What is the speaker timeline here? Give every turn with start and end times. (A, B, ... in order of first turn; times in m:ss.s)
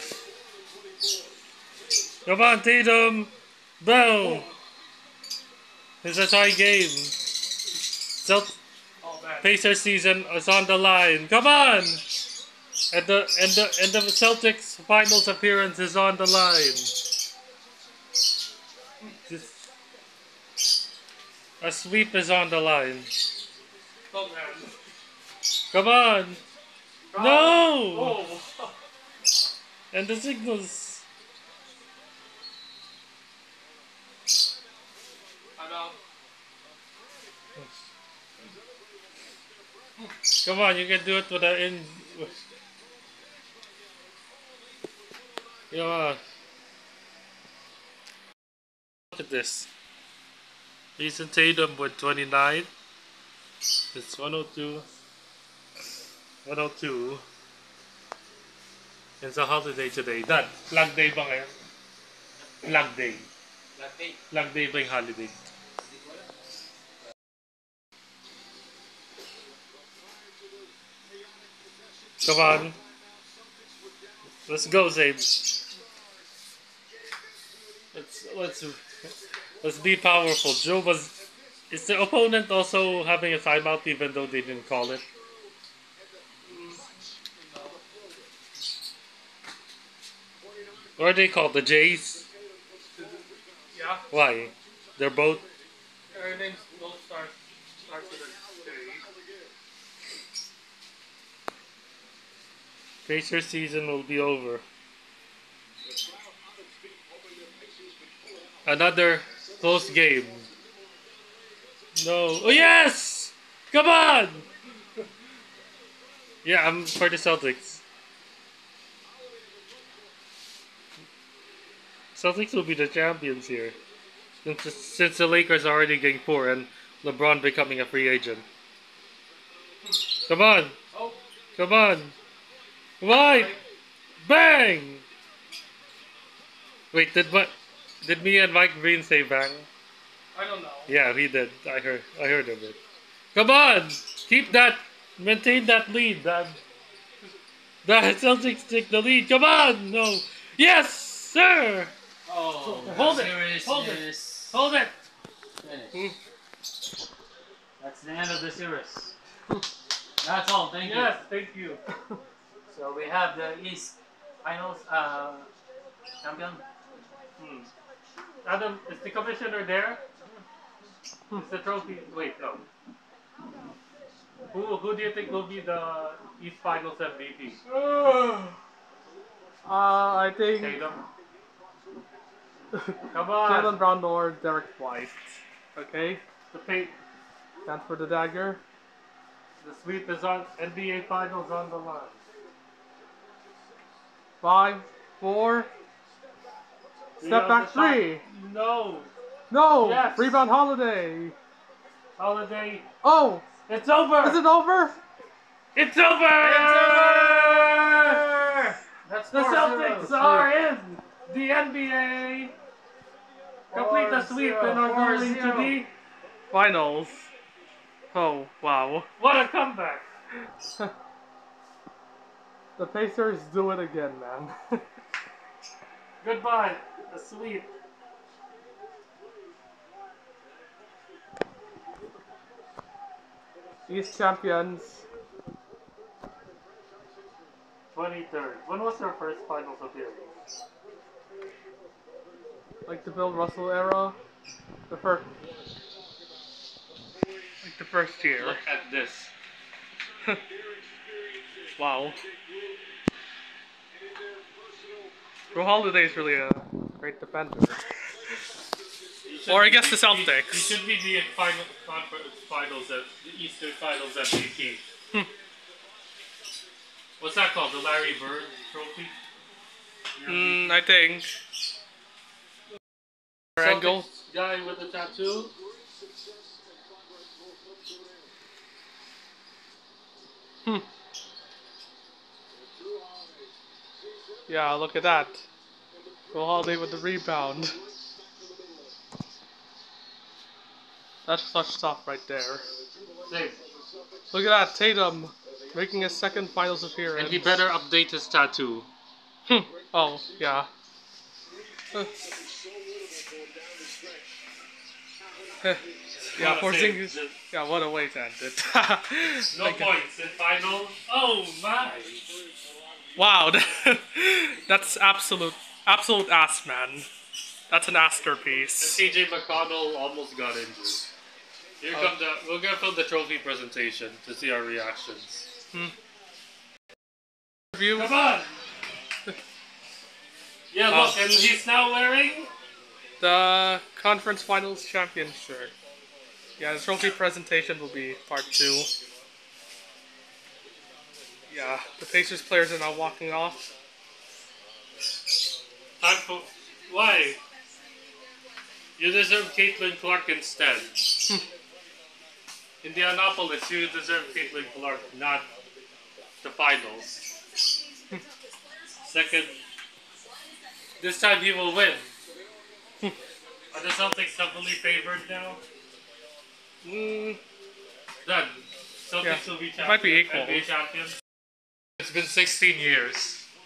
0:02.2-0:04.5 A
0:04.2-0:04.5 B
0:06.0-0:08.6 A
0:09.0-0:09.5 B
0:09.4-0:12.0 A
0:12.9-0:17.0 A
0:19.3-0:19.6 A
0:21.6-0:23.2 A
0:24.1-0:24.7 B
0:25.7-0:26.4 A
0:27.1-0:28.7 B
0:27.2-0:28.2 A
0:29.9-0:31.0 A
0:35.6-0:36.0 B
0:40.3-0:42.3 A
0:45.7-0:46.2 A
0:49.1-0:49.7 A
0:51.0-0:52.7 A
0:53.9-0:54.8 A
0:56.4-0:57.2 A
0:59.2-1:01.5 A
1:02.6-1:03.3 A
1:03.7-1:04.2 C
1:04.3-1:05.3 A
1:05.9-1:06.2 C
1:12.2-1:12.8 A
1:14.5-1:15.6 A
1:17.9-1:18.8 A
1:19.6-1:25.0 A
1:26.4-1:26.9 B
1:27.4-1:27.8 B
1:31.0-1:32.3 A
1:33.0-1:34.0 B
1:34.1-1:35.5 A
1:36.1-1:37.3 B
1:37.8-1:39.0 B
1:43.0-1:44.6 A
1:48.6-1:50.5 A
1:52.0-1:54.5 A
1:56.4-1:57.8 A
2:02.1-2:03.8 A
2:04.4-2:08.4 A
2:10.2-2:10.8 A
2:10.9-2:11.2 B
2:11.6-2:12.2 A
2:13.0-2:13.5 A
2:13.1-2:13.6 B
2:14.2-2:15.0 A
2:16.9-2:19.7 A
2:20.3-2:20.9 B
2:20.9-2:22.8 A
2:23.3-2:26.6 A
2:27.8-2:31.9 A
2:32.3-2:34.5 C
2:32.8-2:33.4 B
2:33.6-2:34.9 A
2:35.6-2:36.0 C
2:37.8-2:39.1 C
2:40.2-2:41.1 C
2:40.8-2:41.8 A
2:42.7-2:45.5 C
2:46.2-2:46.6 C
2:47.4-2:47.7 A
2:48.4-2:50.0 A
2:51.3-2:52.7 A
2:54.5-2:57.6 A
2:57.7-2:58.6 B
2:59.6-3:00.8 B
3:00.6-3:01.0 A
3:02.7-3:06.2 B
3:03.1-3:03.8 A
3:06.5-3:06.9 A
3:07.6-3:08.6 B
3:09.6-3:12.2 A
3:14.4-3:15.7 B
3:17.2-3:19.1 A
3:17.2-3:18.2 B
3:19.5-3:21.4 B
3:19.7-3:20.4 A
3:22.2-3:22.9 A
3:23.0-3:23.4 B
3:23.7-3:24.4 A
3:24.2-3:25.0 B
3:25.7-3:28.2 A
3:26.4-3:30.4 C
3:29.3-3:32.5 A
3:30.2-3:30.5 B
3:33.7-3:35.7 B
3:33.7-3:35.9 A
3:33.8-3:35.8 C
3:36.5-3:37.3 B
3:38.1-3:39.1 B
3:39.2-3:40.0 A
3:42.8-3:44.8 B
3:46.2-3:47.7 A
3:53.9-3:55.0 B
3:57.9-4:00.4 A
4:02.9-4:04.2 B
4:04.9-4:05.3 B
4:07.6-4:08.6 B
4:08.4-4:09.3 A
4:11.8-4:12.2 B
4:15.5-4:17.8 B
4:19.2-4:24.8 A
4:19.4-4:20.8 B
4:27.2-4:29.1 A
4:30.1-4:30.8 A
4:30.2-4:31.3 B
4:33.6-4:34.0 B
4:33.6-4:35.5 A
4:44.5-4:45.4 B
4:46.3-4:47.8 B
4:51.2-4:52.7 B
4:53.3-4:53.6 A
4:54.3-4:57.6 B
4:57.1-4:58.9 A
4:59.4-5:00.7 B
5:06.3-5:07.4 A
5:06.3-5:10.0 B
5:09.5-5:12.3 A
5:13.1-5:17.1 B
5:17.7-5:19.0 B
5:18.8-5:21.1 A
5:21.8-5:25.5 A
5:27.7-5:28.1 B
5:27.9-5:28.5 A
5:30.7-5:32.5 A
5:30.9-5:31.2 B
5:33.2-5:35.7 B
5:36.6-5:38.9 B
5:41.5-5:43.7 B
5:46.0-5:47.4 A
5:49.0-5:51.3 A
5:52.8-5:55.5 A
5:56.4-5:57.3 A
5:59.0-5:59.6 A
6:01.0-6:02.1 A
6:03.7-6:05.6 A
6:06.8-6:07.4 B
6:08.2-6:11.1 A
6:09.2-6:10.6 B
6:12.0-6:13.4 A